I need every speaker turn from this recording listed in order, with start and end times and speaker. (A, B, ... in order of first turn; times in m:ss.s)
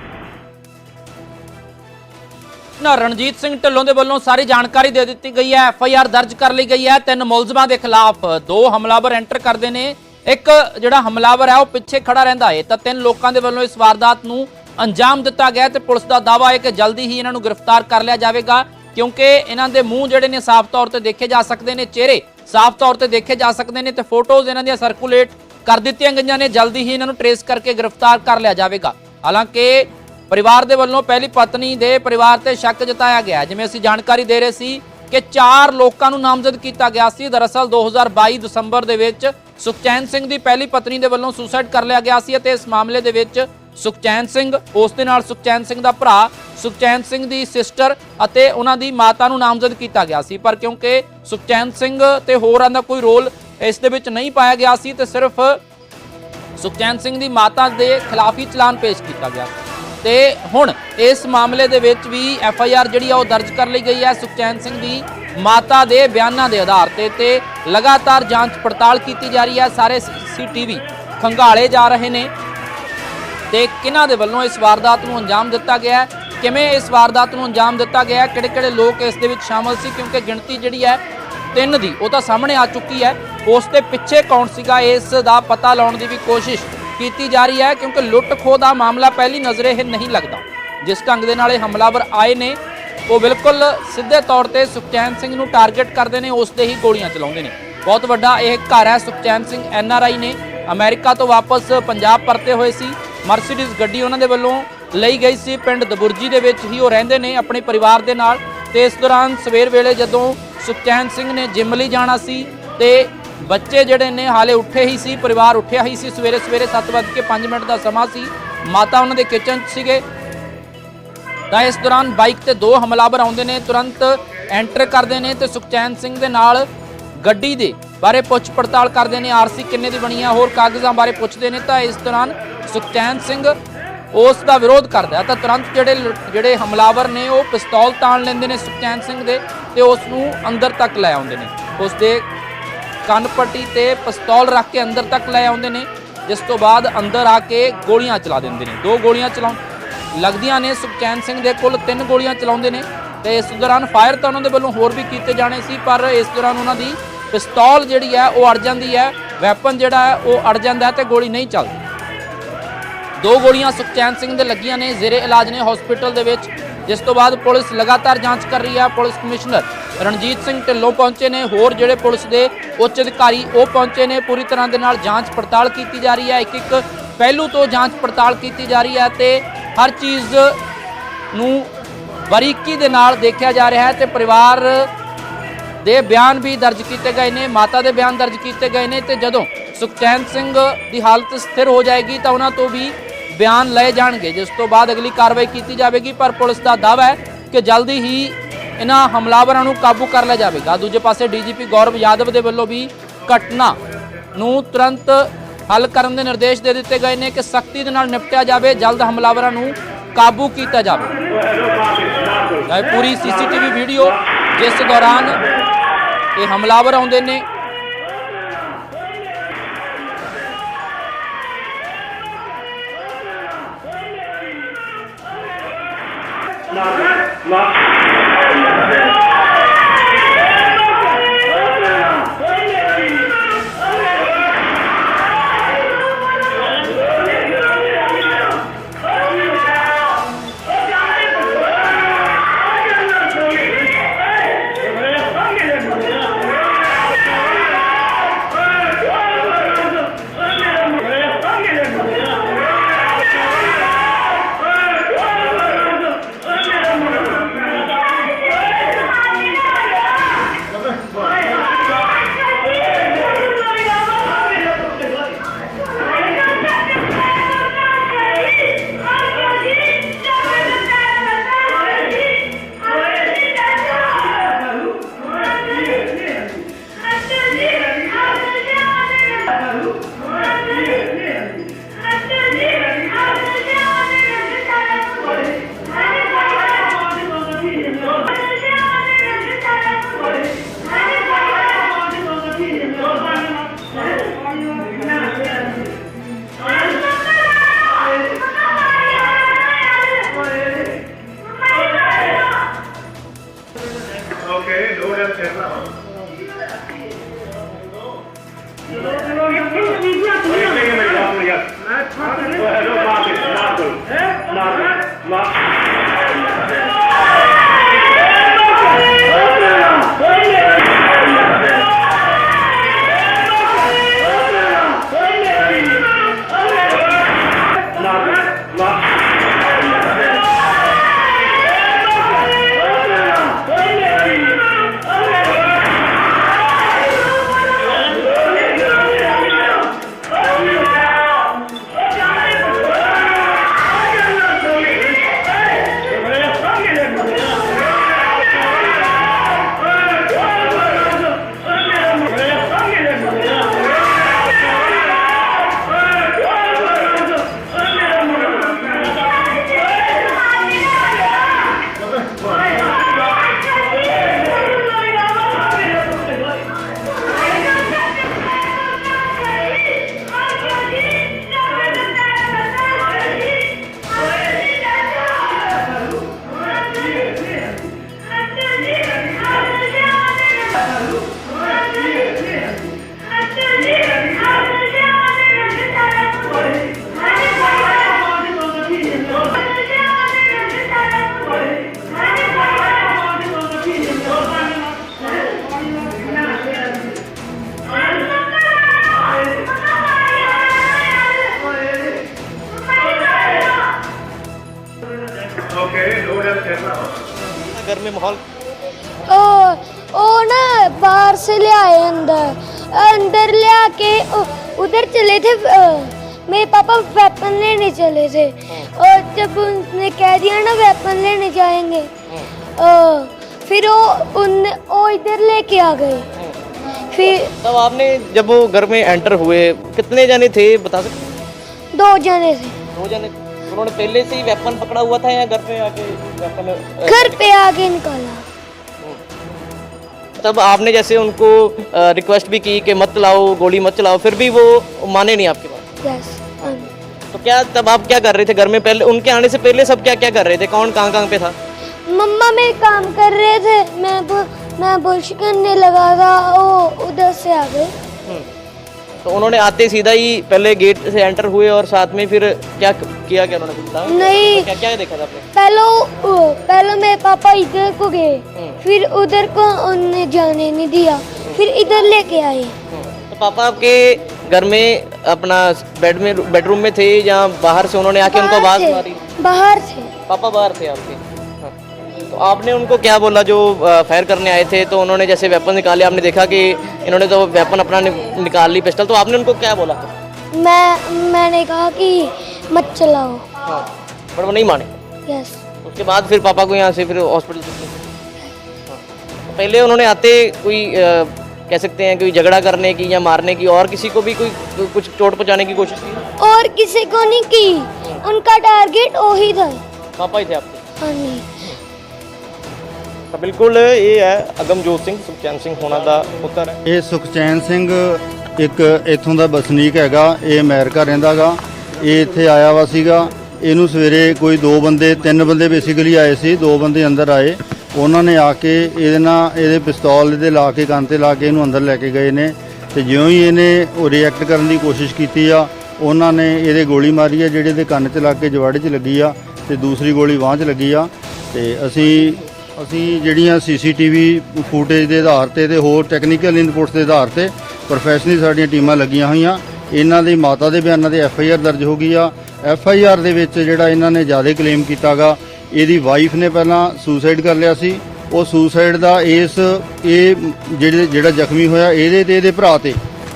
0:02.8-0:55.6 A
0:56.6-1:12.3 A
1:13.5-1:21.0 A
1:21.5-2:00.0 A
2:01.5-2:06.6 A
2:07.2-2:13.5 A
2:14.1-2:22.2 A
2:23.1-2:29.6 A
2:30.2-2:41.7 A
2:43.2-3:00.6 A
3:01.3-3:01.7 A
3:02.3-3:04.9 A
3:05.8-3:23.8 A
3:24.3-3:31.2 A
3:32.6-3:35.4 A
3:36.4-3:37.4 A
6:47.6-6:48.4 B
6:49.3-7:02.1 C
7:02.8-7:06.3 C
7:07.1-7:07.5 C
7:07.6-7:11.3 B
7:11.9-7:12.8 C
7:12.9-7:17.6 B
7:17.0-7:18.4 C
7:20.4-7:25.8 B
7:26.0-7:26.8 C
7:27.3-7:31.5 B
7:32.1-7:37.9 C
7:39.2-7:45.4 B
7:44.0-7:44.7 C
7:45.5-7:52.8 C
7:52.9-7:59.2 B
7:58.2-8:00.1 C
8:00.3-8:01.7 B
8:02.3-8:10.1 B
8:10.5-8:13.4 C
8:13.7-8:14.9 B
8:15.3-8:15.6 C
8:15.8-8:18.0 B
8:18.9-8:26.2 B
8:26.4-8:29.8 C
8:30.2-8:30.8 B
8:31.0-8:31.5 C
8:33.3-8:36.8 B
8:36.8-9:23.0 D